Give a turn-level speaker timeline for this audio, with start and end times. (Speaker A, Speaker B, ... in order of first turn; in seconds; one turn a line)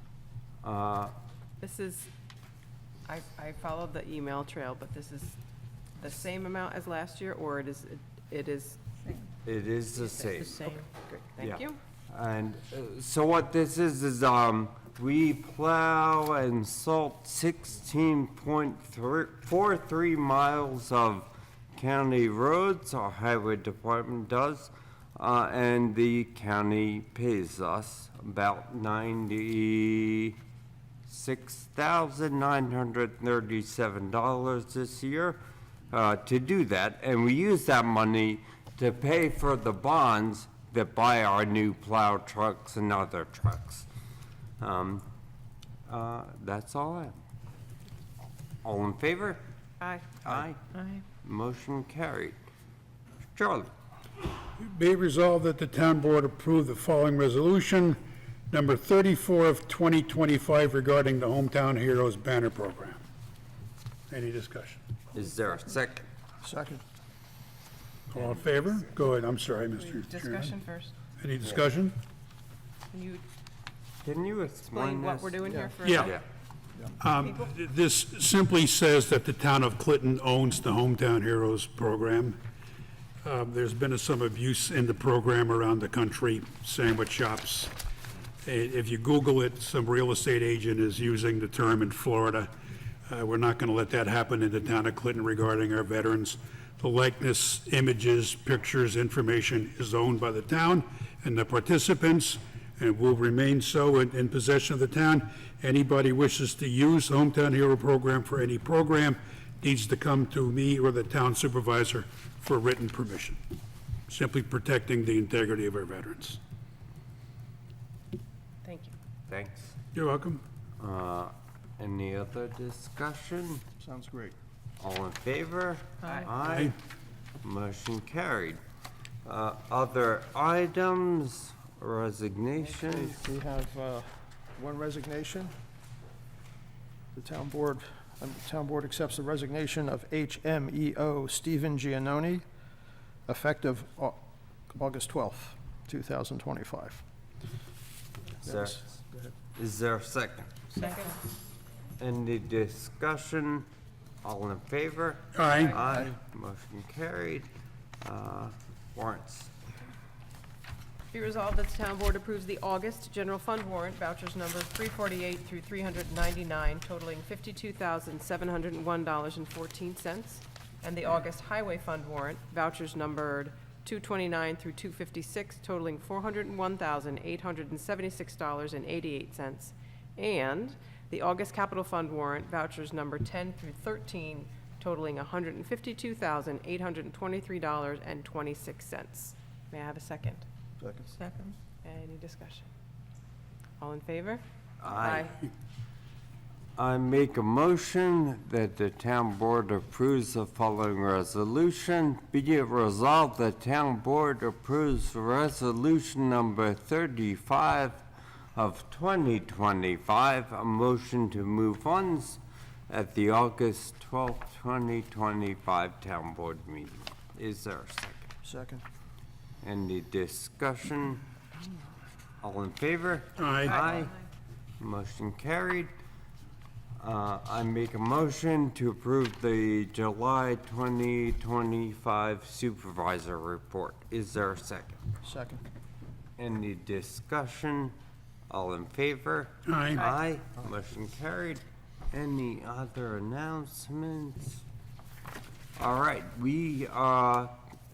Speaker A: 0.6-1.1
Speaker B: 1.6-2.1
Speaker B: 3.1-5.4
Speaker B: 6.0-8.8
Speaker A: 9.4-10.7
Speaker B: 10.2-11.8
Speaker A: 11.4-30.4
Speaker A: 31.1-43.9
Speaker A: 44.6-45.1
Speaker A: 45.9-47.2
Speaker A: 48.6-49.4
Speaker A: 50.2-50.6
Speaker A: 51.2-52.4
Speaker A: 53.3-53.7
Speaker C: 54.6-58.0
Speaker C: 58.5-63.0
Speaker C: 64.1-64.8
Speaker A: 65.1-66.1
Speaker D: 66.4-66.8
Speaker C: 68.1-70.6
Speaker B: 69.9-70.9
Speaker C: 71.2-72.0
Speaker B: 72.9-73.2
Speaker A: 74.0-75.4
Speaker B: 74.7-76.2
Speaker D: 75.4-75.8
Speaker C: 75.8-76.2
Speaker A: 76.0-76.2
Speaker C: 77.0-82.4
Speaker C: 83.2-87.7
Speaker C: 88.5-92.5
Speaker C: 93.1-113.4
Speaker C: 114.1-116.4
Speaker B: 118.6-118.9
Speaker A: 119.3-119.8
Speaker C: 120.0-120.4
Speaker A: 120.8-123.6
Speaker D: 123.8-124.3
Speaker A: 124.8-126.8
Speaker C: 126.4-126.7
Speaker A: 127.4-128.6
Speaker A: 129.2-133.2
Speaker D: 132.6-135.5
Speaker D: 137.2-142.4
Speaker D: 143.3-147.0
Speaker D: 148.4-149.3
Speaker A: 148.4-148.8
Speaker A: 149.6-150.7
Speaker B: 150.8-151.2
Speaker A: 152.0-153.7
Speaker A: 154.2-157.5
Speaker C: 155.3-155.7
Speaker A: 158.0-159.5
Speaker B: 161.1-190.4
Speaker D: 190.8-191.1
Speaker B: 191.8-192.7
Speaker B: 193.8-195.3
Speaker A: 194.8-195.3
Speaker A: 196.8-208.0
Speaker A: 208.6-218.3
Speaker D: 218.4-218.8
Speaker A: 219.6-221.2
Speaker A: 222.4-224.2
Speaker C: 223.4-223.8
Speaker A: 224.8-225.9
Speaker A: 227.0-235.0
Speaker D: 235.2-235.6
Speaker A: 236.4-238.0
Speaker A: 238.5-244.6
Speaker C: 239.7-240.0
Speaker A: 245.8-247.6